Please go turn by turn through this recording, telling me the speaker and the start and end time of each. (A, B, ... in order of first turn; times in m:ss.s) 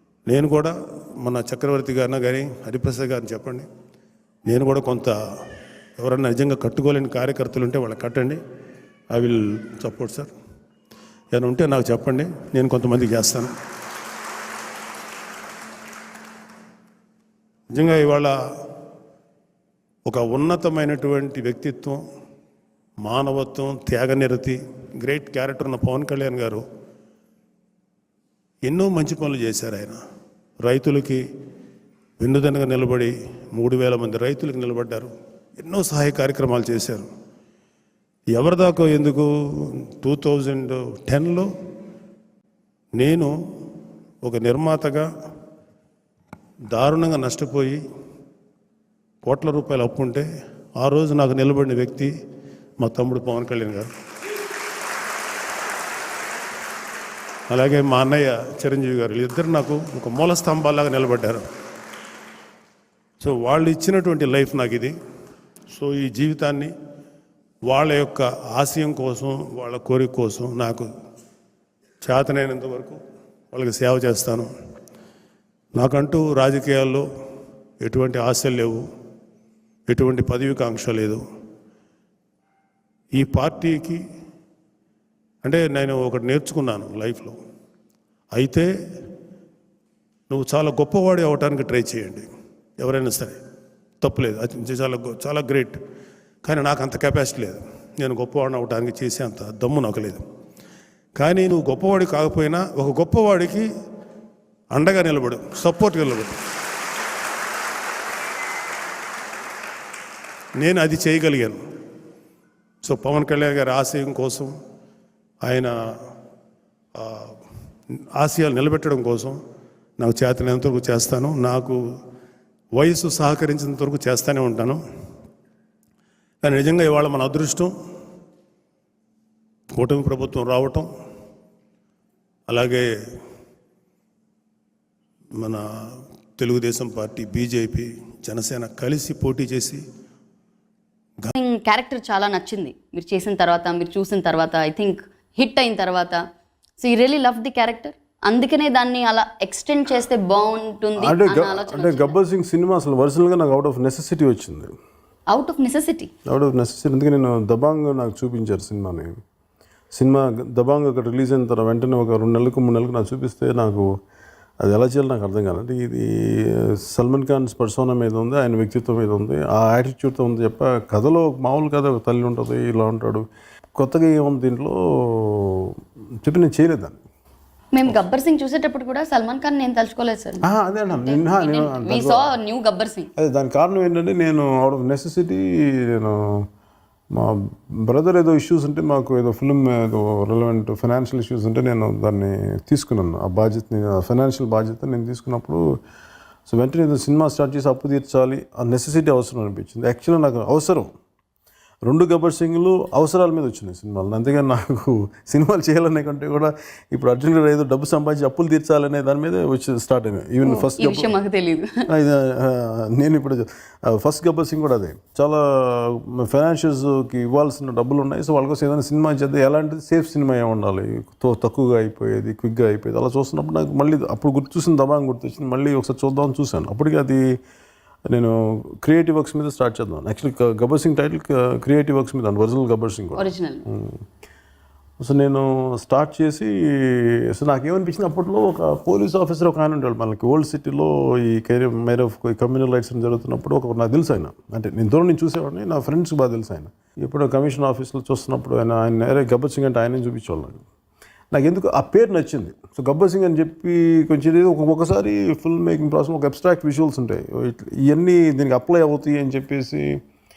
0:00.3-0:03.7 A
0:04.5-0:05.2 A
0:06.0-0:08.4 A
0:09.1-0:10.3 A
0:11.3-0:13.5 A
0:17.7-0:18.3 A
0:20.1-0:22.0 A
0:23.0-0:26.6 A
0:28.6-0:30.0 A
0:30.6-0:31.2 A
0:32.2-0:37.1 A
0:38.3-0:41.5 A
0:43.0-0:43.3 A
0:44.2-0:45.1 A
0:46.7-0:47.8 A
0:49.2-0:50.3 A
0:50.8-0:52.1 A
0:52.8-0:53.9 A
0:57.5-1:01.4 A
1:03.2-1:04.9 A
1:05.7-1:06.7 A
1:07.7-1:10.9 A
1:12.0-1:13.0 A
1:13.5-1:14.5 A
1:15.7-1:17.0 A
1:17.8-1:18.8 A
1:19.9-1:21.2 A
1:23.2-1:24.0 A
1:25.4-1:27.4 A
1:28.3-1:28.7 A
1:30.3-1:32.2 A
1:32.8-1:33.4 A
1:34.0-1:35.8 A
1:36.4-1:40.2 A
1:41.2-1:43.7 A
1:44.7-1:46.4 A
1:50.6-1:51.6 A
1:52.8-1:54.5 A
1:55.4-1:55.7 A
1:57.0-1:57.3 A
1:58.2-1:59.4 A
2:00.0-2:01.8 A
2:02.8-2:04.8 A
2:06.4-2:07.7 A
2:09.7-2:10.9 A
2:12.5-2:12.9 A
2:16.4-2:19.8 A
2:21.3-2:26.2 B
2:26.8-2:32.2 B
2:31.0-2:34.7 C
2:35.3-2:36.1 B
2:36.2-2:39.1 C
2:39.9-2:43.9 C
2:44.6-2:53.2 C
2:53.8-2:57.0 C
2:57.7-3:03.1 B
3:00.4-3:02.3 C
3:03.2-3:06.4 C
3:07.2-3:15.6 C
3:16.5-3:20.9 C
3:21.9-3:31.2 C
3:30.4-3:31.7 B
3:31.9-3:47.2 C
3:48.1-3:54.0 C
3:53.2-3:53.6 B
3:55.0-4:10.6 C
4:11.3-4:19.9 C